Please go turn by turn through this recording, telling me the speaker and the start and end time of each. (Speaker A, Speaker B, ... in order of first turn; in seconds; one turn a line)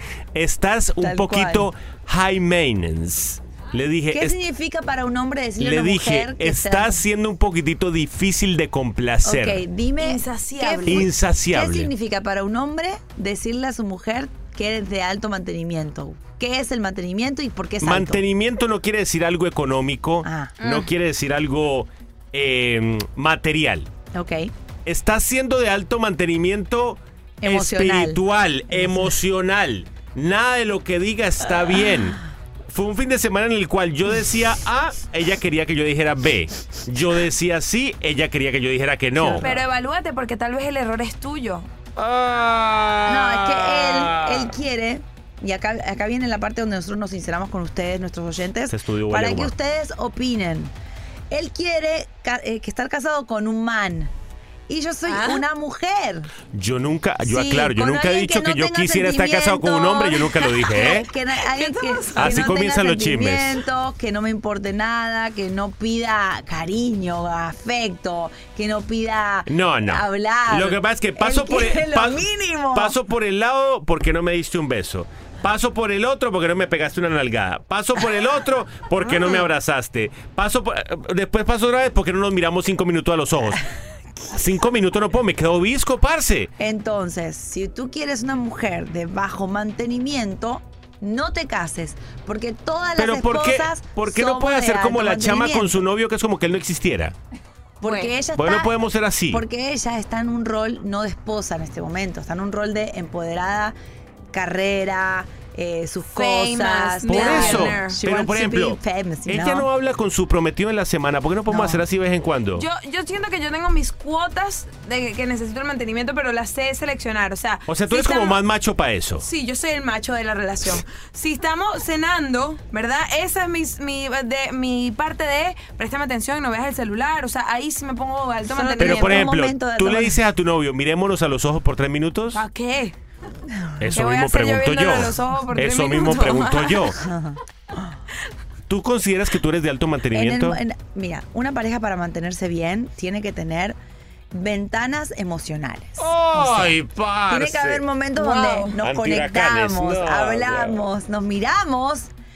Speaker A: 0.3-4.4
Speaker B: 1.0-1.7
Speaker B: 4.1-7.0
Speaker A: 5.6-9.6
Speaker B: 9.2-18.2
Speaker C: 10.0-11.1
Speaker A: 10.9-11.9
Speaker A: 17.8-23.9
Speaker B: 20.2-20.6
Speaker B: 24.1-24.5
Speaker A: 24.9-32.2
Speaker B: 27.4-28.2
Speaker B: 28.7-29.1
Speaker A: 32.7-39.5
Speaker B: 39.2-39.6
Speaker C: 39.4-41.7
Speaker A: 42.0-44.5
Speaker B: 43.0-50.7
Speaker A: 48.7-49.5
Speaker B: 51.3-54.1
Speaker B: 54.7-56.3
Speaker C: 55.1-55.4
Speaker A: 56.5-61.1
Speaker B: 57.2-73.0
Speaker C: 61.5-62.4
Speaker A: 62.2-63.6
Speaker A: 69.5-83.6
Speaker B: 79.0-79.5
Speaker A: 84.3-86.5
Speaker B: 86.6-95.8
Speaker A: 93.0-97.2
Speaker B: 97.8-98.7
Speaker C: 97.8-98.1
Speaker A: 98.4-99.4
Speaker B: 99.3-103.8
Speaker B: 104.3-109.7
Speaker C: 106.1-108.0
Speaker A: 107.0-112.7
Speaker C: 112.5-118.4
Speaker A: 117.7-119.2
Speaker C: 119.2-129.3
Speaker B: 128.5-130.2
Speaker A: 128.8-132.4
Speaker C: 132.3-132.9
Speaker A: 133.8-137.0
Speaker C: 133.9-136.9
Speaker B: 137.0-137.4
Speaker A: 138.7-140.6
Speaker B: 140.1-143.8
Speaker B: 144.3-152.1
Speaker A: 146.0-147.8
Speaker C: 148.2-148.7
Speaker A: 148.8-150.8